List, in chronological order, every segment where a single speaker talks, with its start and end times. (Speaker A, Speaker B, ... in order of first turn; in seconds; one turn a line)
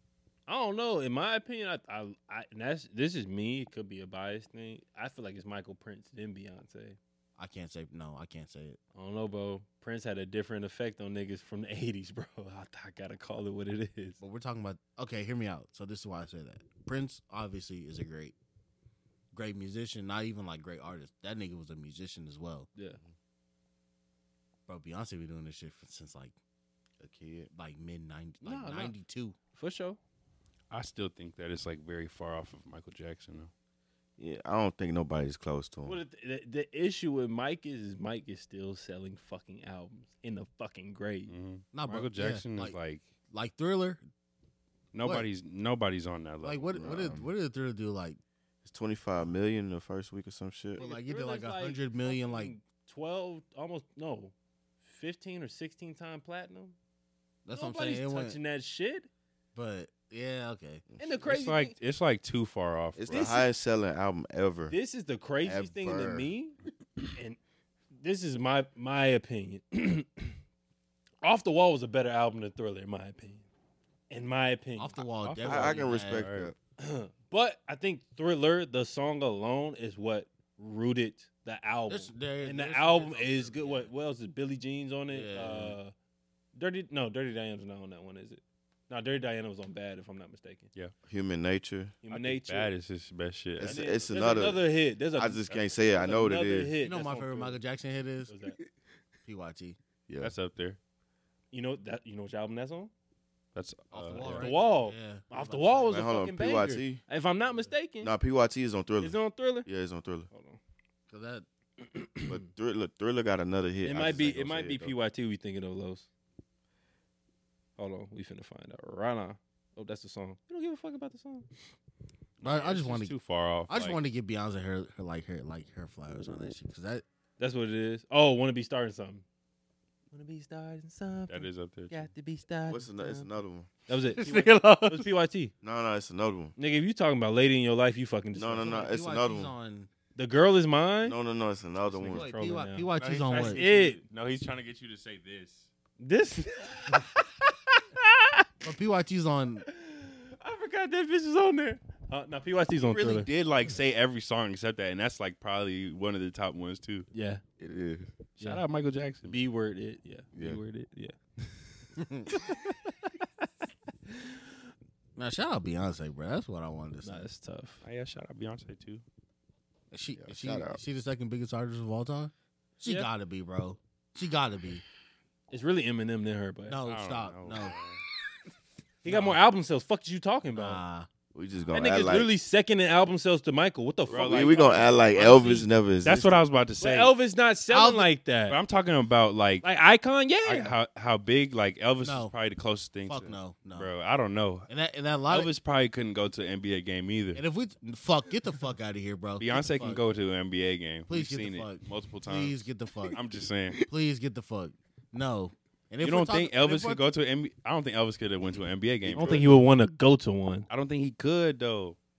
Speaker A: 0.5-7.0
Speaker B: 7.4-8.8
Speaker A: 8.9-14.2
Speaker B: 14.2-18.4
Speaker B: 19.3-22.7
Speaker B: 24.7-26.4
Speaker C: 27.0-27.5
Speaker B: 27.5-29.4
Speaker A: 28.4-28.9
Speaker A: 29.5-30.0
Speaker D: 30.7-33.5
Speaker C: 34.2-36.0
Speaker A: 35.9-41.3
Speaker D: 41.3-43.0
Speaker B: 41.7-42.8
Speaker B: 43.3-44.0
Speaker D: 44.9-47.0
Speaker B: 45.0-45.3
Speaker B: 46.4-48.2
Speaker C: 46.8-47.3
Speaker C: 48.6-50.8
Speaker B: 50.8-52.5
Speaker A: 50.8-54.3
Speaker A: 54.9-56.8
Speaker B: 57.5-58.4
Speaker A: 57.5-59.1
Speaker B: 59.5-60.8
Speaker C: 60.9-61.2
Speaker A: 61.0-61.8
Speaker D: 61.2-63.4
Speaker C: 63.0-64.8
Speaker A: 63.1-63.5
Speaker A: 64.7-66.6
Speaker C: 65.4-66.3
Speaker A: 68.0-70.4
Speaker A: 71.2-73.4
Speaker A: 74.1-75.0
Speaker B: 74.8-76.3
Speaker D: 75.2-76.5
Speaker C: 75.4-76.5
Speaker A: 76.8-85.9
Speaker B: 81.9-83.9
Speaker B: 85.1-85.8
Speaker A: 86.6-90.7
Speaker C: 91.1-92.0
Speaker A: 92.0-92.7
Speaker D: 92.1-93.8
Speaker C: 93.6-96.7
Speaker A: 93.6-97.6
Speaker B: 96.8-98.3
Speaker A: 98.3-98.6
Speaker B: 99.3-99.8
Speaker C: 100.1-100.3
Speaker D: 100.2-100.8
Speaker A: 101.5-102.9
Speaker D: 103.5-104.5
Speaker B: 103.9-106.0
Speaker A: 104.2-108.1
Speaker C: 105.9-107.0
Speaker C: 108.0-110.3
Speaker A: 109.0-109.7
Speaker A: 110.3-110.6
Speaker B: 111.1-111.5
Speaker A: 111.8-112.4
Speaker C: 112.3-114.9
Speaker A: 113.8-116.1
Speaker A: 117.8-121.5
Speaker D: 122.4-124.0
Speaker B: 122.4-123.2
Speaker B: 123.7-127.0
Speaker A: 127.4-129.2
Speaker A: 130.1-133.3
Speaker D: 131.3-131.9
Speaker C: 132.7-133.7
Speaker A: 133.9-135.5
Speaker D: 134.2-135.1
Speaker C: 135.6-136.5
Speaker A: 136.6-138.9
Speaker C: 138.3-139.5
Speaker B: 138.6-139.9
Speaker A: 140.2-141.2
Speaker C: 141.0-142.3
Speaker A: 141.9-144.0
Speaker B: 142.1-143.6
Speaker D: 143.0-145.7
Speaker A: 146.0-148.5
Speaker B: 148.6-149.7
Speaker A: 149.6-153.3
Speaker D: 152.9-157.1
Speaker A: 157.1-157.4
Speaker C: 157.6-158.1
Speaker D: 158.4-159.4
Speaker A: 159.3-161.2
Speaker C: 160.3-160.6
Speaker B: 162.0-162.5
Speaker A: 162.3-162.6
Speaker A: 164.1-164.3
Speaker B: 165.2-167.3
Speaker A: 167.0-167.8
Speaker D: 167.8-169.0
Speaker B: 169.9-174.8
Speaker C: 170.2-170.8
Speaker A: 175.5-176.8
Speaker B: 176.7-177.8
Speaker D: 176.9-178.0
Speaker A: 179.0-180.8
Speaker B: 179.1-179.4
Speaker B: 180.6-181.1
Speaker C: 181.3-182.3
Speaker A: 181.7-185.0
Speaker C: 184.1-186.4
Speaker D: 184.1-187.1
Speaker A: 186.8-188.6
Speaker B: 187.7-188.1
Speaker D: 188.5-189.7
Speaker A: 189.6-190.7
Speaker D: 190.4-194.7
Speaker B: 192.0-192.3
Speaker B: 193.0-193.9
Speaker B: 194.7-195.5
Speaker D: 195.3-197.4
Speaker B: 197.3-200.0
Speaker D: 199.4-203.8
Speaker B: 201.1-203.2
Speaker B: 203.9-207.0
Speaker D: 206.0-209.6
Speaker A: 209.1-210.7
Speaker C: 209.2-209.4
Speaker D: 210.7-212.0